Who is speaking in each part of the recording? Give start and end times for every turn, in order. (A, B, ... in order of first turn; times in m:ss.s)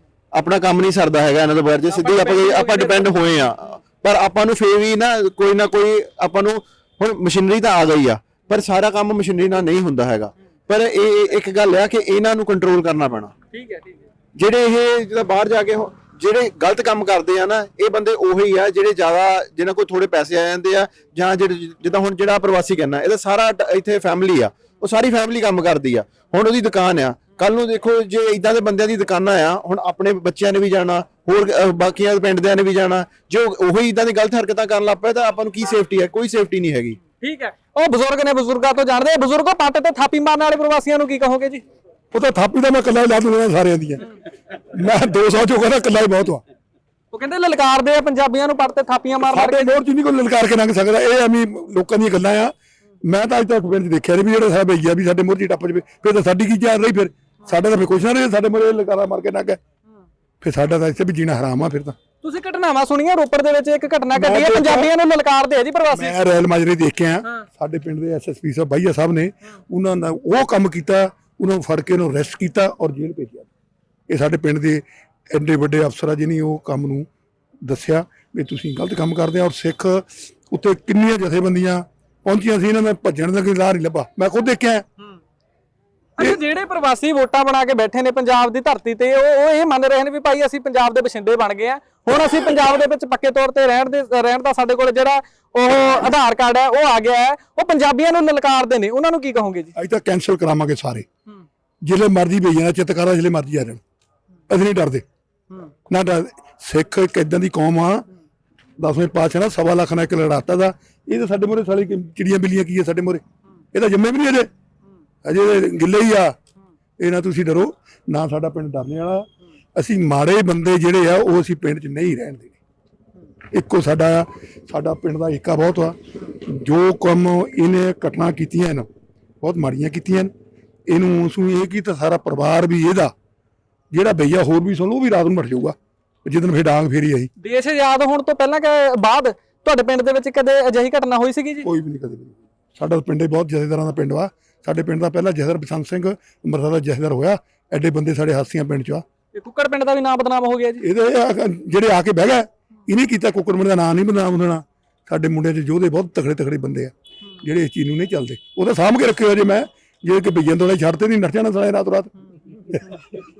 0:00.4-0:13.3 A
0:01.9-0:03.1 B
0:13.5-0:14.0 B
0:14.4-0:37.0 A
0:37.2-0:41.6 B
0:42.1-0:44.1 C
0:44.7-0:46.4 C
0:47.1-0:49.7 B
0:49.3-0:52.5 C
0:53.0-0:59.6 C
1:00.4-1:02.0 C
1:02.2-1:06.2 B
1:04.1-1:04.9 C
1:05.9-1:13.5 C
1:14.1-1:17.1 C
1:17.6-1:24.8 C
1:26.2-1:39.7 B
1:39.8-1:41.1 C
1:41.8-1:43.8 C
1:44.5-1:45.0 C
1:45.9-1:48.0 C
1:48.8-1:54.5 C
1:55.2-1:56.4 C
1:57.0-2:02.5 C
2:03.5-2:08.9 C
2:09.4-2:10.3 C
2:10.9-2:13.1 C
2:13.9-2:17.3 C
2:17.4-2:21.7 B
2:21.6-2:29.0 C
2:29.4-2:30.8 B
2:30.8-2:42.1 C